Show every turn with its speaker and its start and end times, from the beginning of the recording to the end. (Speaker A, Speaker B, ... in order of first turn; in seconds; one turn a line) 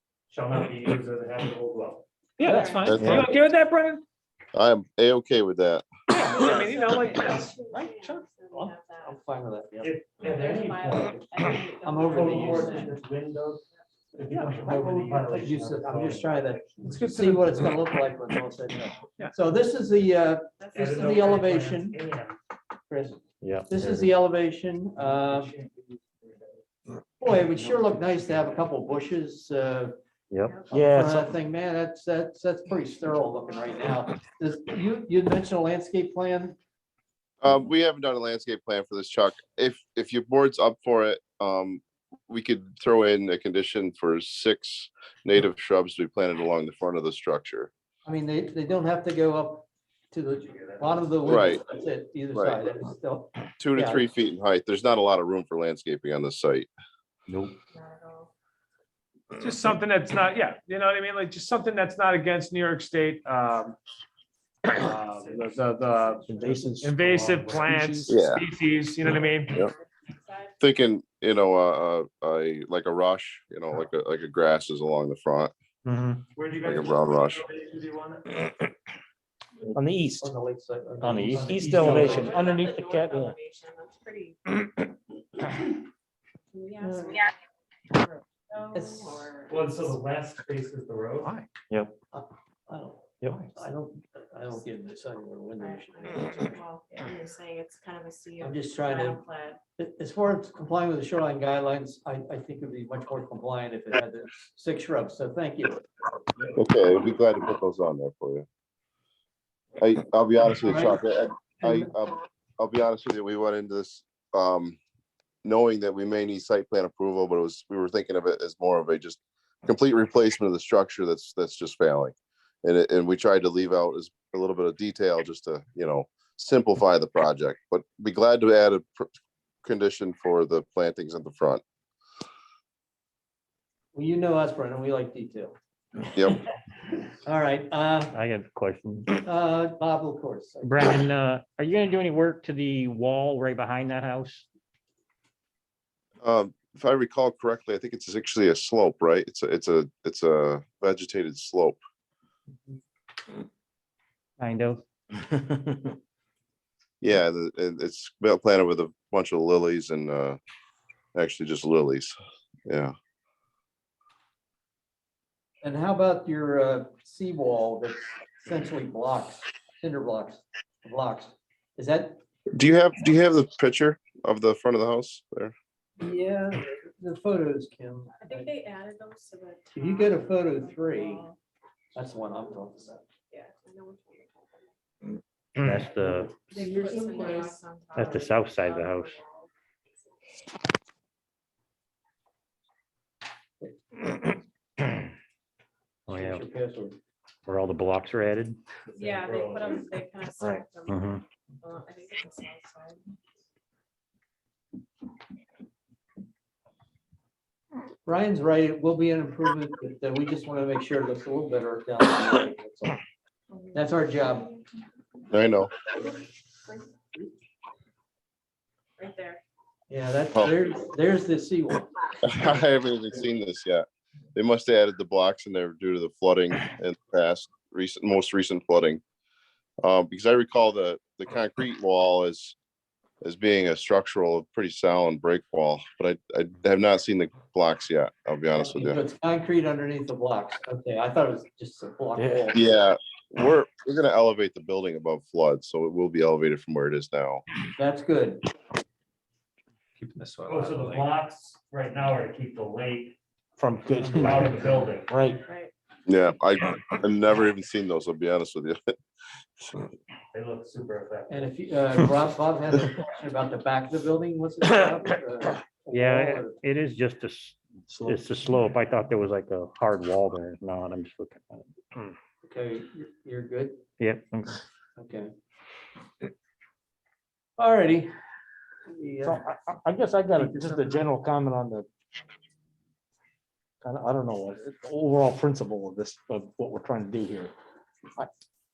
Speaker A: 0.3-2.0
Speaker B: 2.4-4.0
Speaker C: 2.4-3.0
Speaker D: 2.4-3.0
Speaker E: 2.9-3.3
Speaker E: 4.5-5.8
Speaker B: 6.1-7.7
Speaker C: 6.2-9.2
Speaker F: 7.8-8.7
Speaker D: 9.0-9.9
Speaker A: 9.8-13.6
Speaker C: 10.2-12.9
Speaker D: 11.8-12.9
Speaker A: 14.1-16.9
Speaker B: 14.3-15.3
Speaker D: 15.3-22.0
Speaker B: 16.8-17.6
Speaker C: 20.6-21.4
Speaker A: 20.8-22.4
Speaker D: 22.9-25.5
Speaker F: 23.4-24.1
Speaker D: 27.2-29.9
Speaker F: 30.3-31.2
Speaker D: 30.7-36.6
Speaker E: 37.4-47.7
Speaker D: 48.0-54.1
Speaker A: 50.5-51.2
Speaker E: 51.3-51.6
Speaker E: 52.3-52.6
Speaker E: 53.6-56.7
Speaker C: 57.7-58.3
Speaker B: 59.4-63.8
Speaker B: 64.7-69.6
Speaker A: 64.8-67.9
Speaker F: 66.3-66.9
Speaker F: 67.5-68.0
Speaker E: 68.1-68.4
Speaker C: 69.5-70.5
Speaker E: 70.6-75.5
Speaker F: 75.9-76.2
Speaker A: 76.3-78.4
Speaker E: 76.6-77.4
Speaker G: 79.8-80.2
Speaker D: 80.2-82.3
Speaker F: 81.0-82.7
Speaker A: 81.3-82.2
Speaker G: 81.6-83.1
Speaker C: 81.8-84.4
Speaker C: 86.5-87.3
Speaker D: 86.8-87.2
Speaker C: 88.0-89.8
Speaker D: 88.7-89.3
Speaker A: 89.5-91.4
Speaker D: 92.1-96.6
Speaker F: 93.2-93.5
Speaker C: 95.6-99.6
Speaker D: 98.4-99.2
Speaker D: 99.8-105.9
Speaker E: 106.5-108.5
Speaker E: 109.8-114.8
Speaker D: 110.6-111.0
Speaker D: 111.6-111.9
Speaker E: 115.4-129.1
Speaker E: 129.6-131.6
Speaker D: 133.9-135.6
Speaker E: 136.1-136.4
Speaker D: 137.2-138.2
Speaker F: 138.1-139.2
Speaker D: 139.2-140.9
Speaker F: 140.6-144.4
Speaker E: 146.2-151.8
Speaker F: 154.4-154.8
Speaker E: 157.0-160.4
Speaker E: 161.2-162.2
Speaker E: 162.7-162.9
Speaker D: 165.6-172.2
Speaker E: 172.5-175.5
Speaker D: 176.0-178.5
Speaker C: 178.2-181.4
Speaker D: 179.7-181.2
Speaker D: 181.9-183.0
Speaker C: 183.3-184.7
Speaker F: 185.6-186.3
Speaker D: 186.0-186.3
Speaker C: 186.5-189.5
Speaker G: 186.7-187.4
Speaker F: 188.0-189.1
Speaker A: 188.0-189.1
Speaker F: 196.1-196.4
Speaker D: 196.1-197.0
Speaker F: 197.5-198.6
Speaker A: 198.9-199.8
Speaker C: 199.0-203.0
Speaker F: 200.4-201.2
Speaker D: 208.1-213.0
Speaker D: 213.7-214.6
Speaker E: 215.3-215.7
Speaker C: 219.0-219.4
Speaker D: 219.9-222.0
Speaker E: 222.2-229.0
Speaker E: 229.8-232.6
Speaker E: 233.2-239.0
Speaker D: 238.6-242.6
Speaker E: 242.5-247.4
Speaker D: 247.8-248.4
Speaker A: 250.5-253.2
Speaker G: 253.6-254.2
Speaker A: 254.1-255.1
Speaker G: 255.1-255.4
Speaker C: 255.5-255.7
Speaker E: 256.1-258.9
Speaker A: 260.3-261.5
Speaker D: 261.3-266.6
Speaker F: 265.9-272.0
Speaker D: 272.4-273.8
Speaker F: 274.0-274.6
Speaker D: 275.0-275.3
Speaker D: 277.6-278.1
Speaker D: 278.9-279.4
Speaker G: 279.2-281.9
Speaker D: 280.4-280.9
Speaker G: 283.8-287.5